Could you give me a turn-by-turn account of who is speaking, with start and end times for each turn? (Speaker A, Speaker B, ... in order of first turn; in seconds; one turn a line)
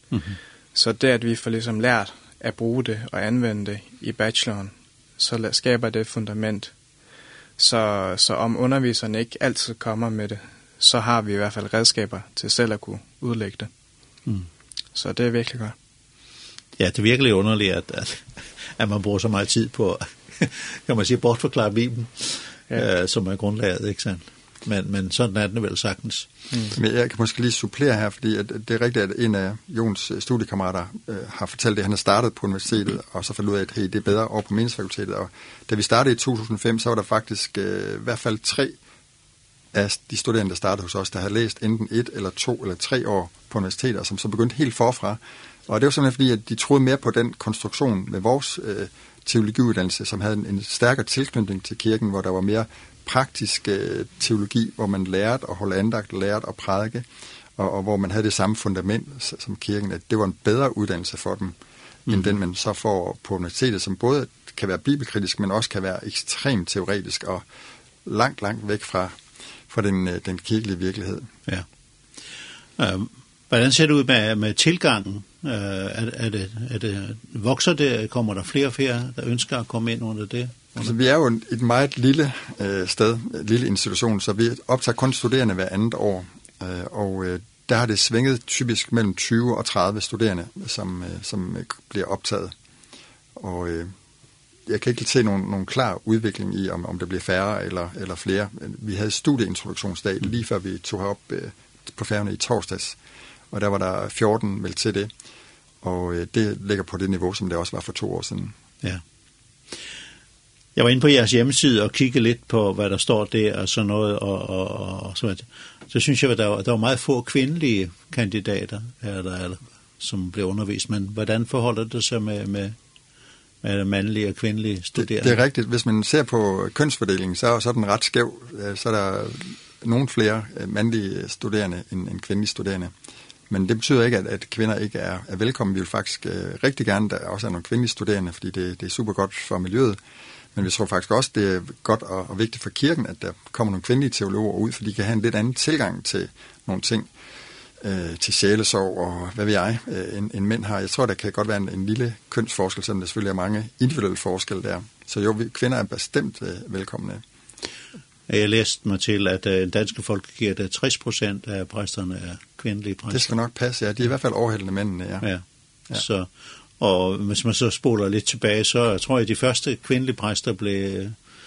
Speaker A: 0.1-0.4
Speaker B: 0.7-6.7
Speaker B: 7.6-13.7
Speaker B: 14.9-15.7
Speaker A: 16.8-26.3
Speaker C: 26.8-38.8
Speaker C: 39.7-57.0
Speaker C: 57.6-61.5
Speaker C: 62.1-67.4
Speaker C: 68.0-69.2
Speaker C: 69.7-71.3
Speaker A: 72.8-80.9
Speaker C: 80.8-92.5
Speaker C: 93.4-93.9
Speaker C: 94.7-103.0
Speaker C: 103.5-105.1
Speaker C: 105.8-108.5
Speaker A: 110.8-122.8
Speaker A: 123.6-125.4
Speaker C: 125.0-132.9
Speaker C: 133.5-140.0
Speaker C: 140.5-147.1
Speaker C: 147.8-157.2
Speaker A: 158.3-163.3
Speaker C: 163.1-165.3
Speaker A: 165.2-166.3
Speaker A: 166.8-171.2